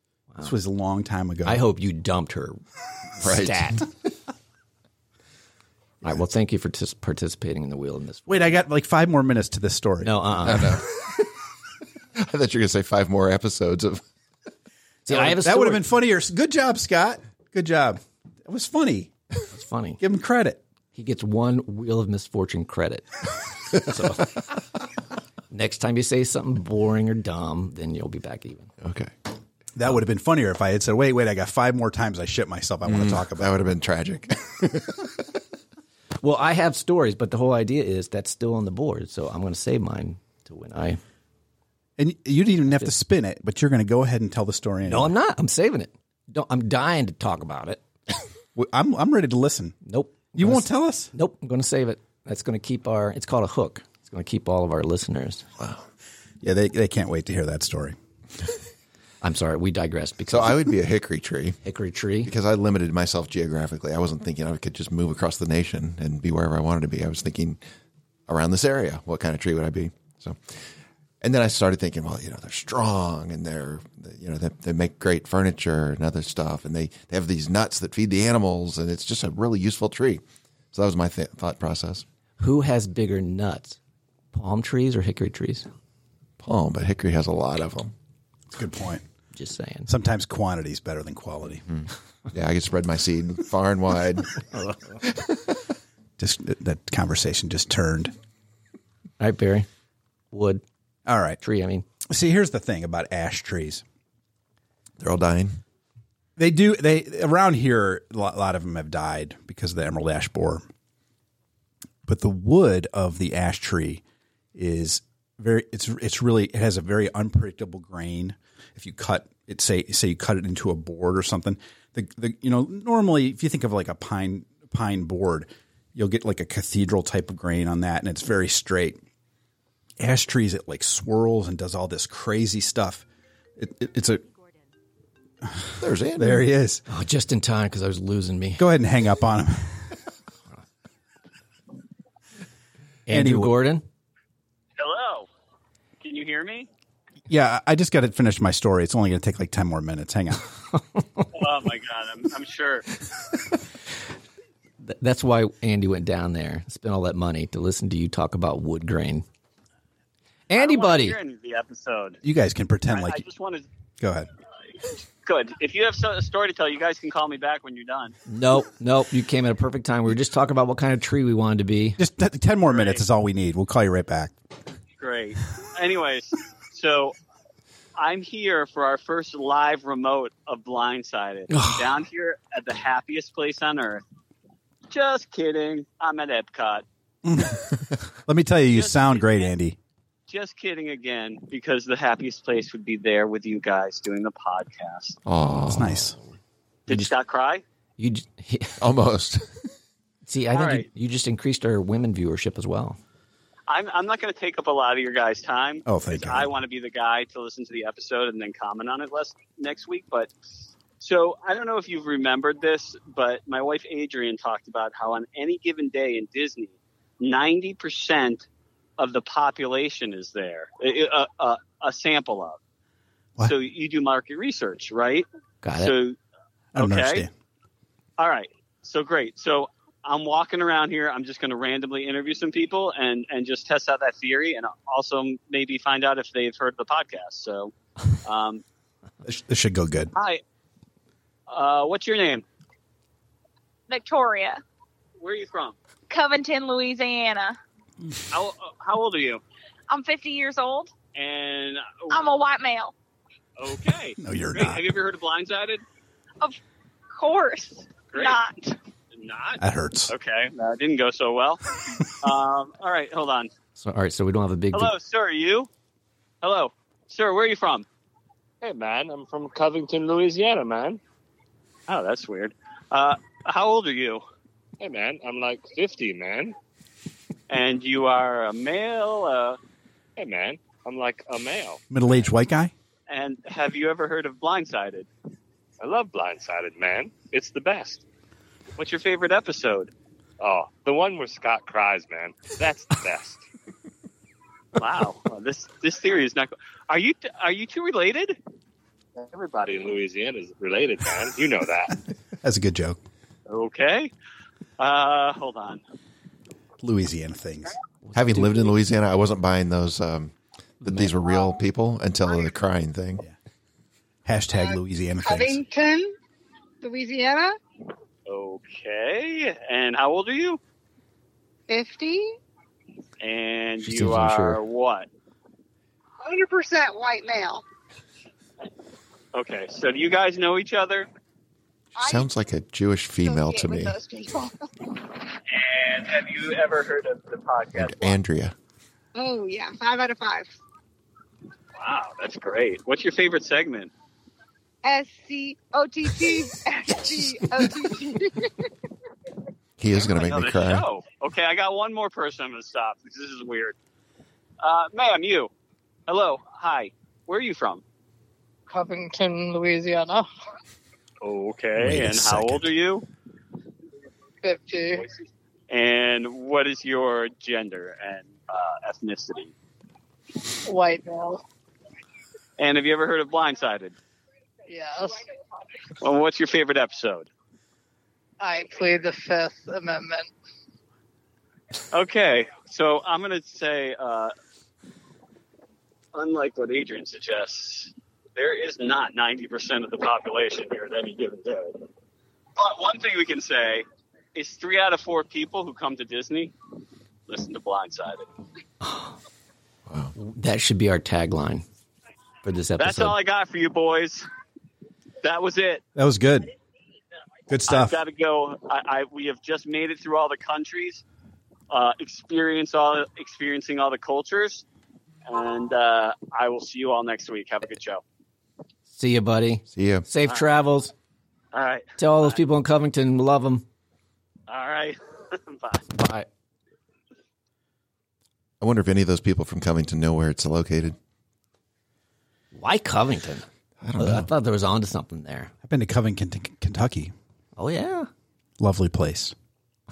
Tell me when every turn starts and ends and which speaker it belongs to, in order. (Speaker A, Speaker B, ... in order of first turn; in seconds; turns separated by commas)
Speaker A: 0.4-1.6, Speaker B: 1.4-2.6, Speaker B: 3.2-3.8, Speaker C: 3.2-3.9, Speaker B: 6.0-8.5, Speaker A: 8.3-10.1, Speaker B: 10.0-10.8, Speaker C: 10.4-11.3, Speaker C: 12.1-14.0, Speaker A: 15.1-19.1, Speaker B: 15.1-15.8, Speaker B: 19.5-20.0, Speaker A: 20.0-20.6, Speaker B: 20.9-24.3, Speaker B: 25.5-28.7, Speaker C: 28.8-29.1, Speaker A: 29.7-33.6, Speaker C: 32.8-35.2, Speaker B: 36.2-41.0, Speaker A: 42.0-45.1, Speaker B: 44.9-47.8, Speaker A: 48.5-49.8, Speaker B: 49.8-55.5, Speaker A: 50.3-51.1, Speaker C: 55.6-55.8, Speaker A: 56.4-58.0, Speaker B: 59.2-60.6, Speaker C: 60.3-61.6, Speaker B: 61.6-62.3, Speaker C: 62.2-67.6, Speaker C: 68.3-70.6, Speaker C: 71.2-82.0, Speaker B: 82.4-83.8, Speaker B: 84.3-85.7, Speaker C: 86.4-87.9, Speaker A: 88.5-89.0, Speaker B: 89.3-89.9, Speaker A: 89.9-91.6, Speaker C: 91.7-94.3, Speaker C: 95.0-95.5, Speaker A: 96.2-98.1, Speaker B: 99.2-99.7, Speaker B: 100.3-100.6, Speaker A: 101.0-101.4, Speaker B: 101.4-101.8, Speaker A: 102.1-103.8, Speaker C: 105.0-105.6, Speaker A: 106.3-110.6, Speaker A: 112.0-114.0, Speaker A: 114.5-129.0, Speaker A: 130.0-133.0, Speaker A: 133.6-134.2, Speaker A: 135.4-136.8, Speaker C: 135.8-136.5, Speaker B: 136.9-138.6, Speaker A: 138.6-139.9, Speaker B: 143.1-143.8, Speaker A: 143.1-143.5, Speaker D: 144.8-145.3, Speaker D: 146.0-146.7, Speaker A: 147.3-150.5, Speaker D: 151.3-152.9, Speaker B: 154.8-159.2, Speaker B: 160.5-161.2, Speaker D: 160.6-162.2, Speaker A: 162.2-163.2, Speaker D: 162.9-163.7, Speaker A: 164.0-164.3, Speaker D: 165.2-168.1, Speaker B: 168.3-172.0, Speaker A: 172.0-174.3, Speaker D: 172.7-173.0, Speaker D: 175.0-177.1, Speaker D: 178.0-184.0, Speaker B: 181.5-181.9, Speaker D: 184.9-186.8, Speaker A: 187.2-187.7, Speaker A: 188.2-189.8, Speaker D: 188.7-189.5, Speaker D: 190.3-195.2, Speaker C: 195.2-196.1, Speaker A: 195.7-196.2, Speaker D: 196.9-197.6, Speaker B: 198.0-198.8, Speaker C: 198.8-199.7, Speaker B: 200.2-203.0, Speaker D: 200.5-200.9, Speaker D: 203.7-210.3, Speaker A: 205.8-206.5, Speaker D: 211.0-218.4, Speaker D: 219.0-222.6, Speaker D: 223.4-226.2, Speaker B: 225.6-225.9, Speaker A: 226.7-227.3, Speaker D: 226.8-227.2, Speaker D: 228.2-237.7, Speaker D: 238.2-238.6, Speaker A: 239.2-240.1, Speaker D: 240.1-240.4, Speaker D: 241.5-242.4, Speaker E: 243.9-244.6, Speaker D: 245.2-245.8, Speaker E: 246.1-247.6, Speaker D: 248.3-249.4, Speaker E: 249.9-250.9, Speaker D: 251.1-252.2, Speaker E: 252.1-252.9, Speaker D: 253.6-255.8, Speaker A: 254.2-254.8, Speaker E: 257.1-258.8, Speaker D: 258.1-258.4, Speaker D: 259.1-263.5, Speaker A: 259.6-260.1, Speaker B: 263.8-264.9, Speaker D: 264.7-265.7, Speaker D: 266.4-267.9, Speaker F: 268.6-271.0, Speaker D: 271.9-274.2, Speaker F: 274.8-276.6, Speaker D: 277.5-279.6, Speaker F: 280.2-281.8, Speaker A: 281.9-282.7, Speaker D: 283.1-285.1, Speaker F: 285.8-288.0, Speaker D: 288.8-289.9, Speaker F: 290.4-293.4, Speaker D: 294.8-298.4, Speaker F: 299.2-301.9, Speaker A: 302.4-303.0, Speaker D: 303.5-304.1, Speaker D: 304.8-305.8, Speaker A: 306.8-307.8, Speaker B: 308.1-308.5, Speaker C: 308.1-313.2, Speaker B: 310.9-311.1, Speaker A: 314.2-315.6, Speaker G: 314.5-316.1, Speaker G: 316.8-317.6, Speaker D: 318.3-320.6, Speaker G: 321.7-322.4, Speaker D: 323.2-325.1, Speaker B: 323.8-324.6, Speaker G: 326.2-327.6, Speaker D: 329.3-331.1, Speaker G: 331.9-332.3, Speaker C: 332.0-333.9, Speaker G: 333.2-335.1, Speaker D: 335.5-338.2, Speaker C: 337.7-338.5, Speaker G: 339.1-340.6, Speaker D: 341.8-343.9, Speaker G: 344.8-348.7, Speaker C: 349.8-350.9, Speaker D: 350.1-353.7, Speaker D: 354.6-355.5, Speaker D: 356.1-357.8, Speaker H: 358.7-360.3, Speaker D: 361.2-363.1, Speaker C: 361.8-362.7, Speaker H: 364.4-365.1, Speaker D: 365.7-369.5, Speaker H: 370.6-371.4, Speaker D: 372.6-373.9, Speaker H: 374.7-375.2, Speaker D: 376.0-377.3, Speaker H: 378.4-380.3, Speaker D: 381.9-384.3, Speaker D: 386.1-391.9, Speaker D: 392.6-396.5, Speaker D: 397.3-398.2, Speaker B: 398.8-399.1, Speaker C: 399.9-400.1, Speaker B: 400.2-401.6, Speaker B: 402.4-403.1, Speaker D: 402.8-404.2, Speaker D: 405.2-405.8, Speaker A: 405.9-406.5, Speaker A: 407.5-408.0, Speaker D: 407.7-411.0, Speaker D: 411.7-414.6, Speaker D: 415.2-418.0, Speaker B: 418.9-420.9, Speaker C: 419.7-420.1, Speaker D: 421.5-422.4, Speaker B: 422.0-423.6, Speaker D: 424.5-425.9, Speaker B: 425.9-426.3, Speaker C: 428.6-430.9, Speaker B: 432.5-433.4, Speaker C: 433.8-434.3, Speaker B: 434.0-435.5, Speaker A: 435.6-437.1, Speaker B: 437.6-438.1, Speaker A: 438.6-439.3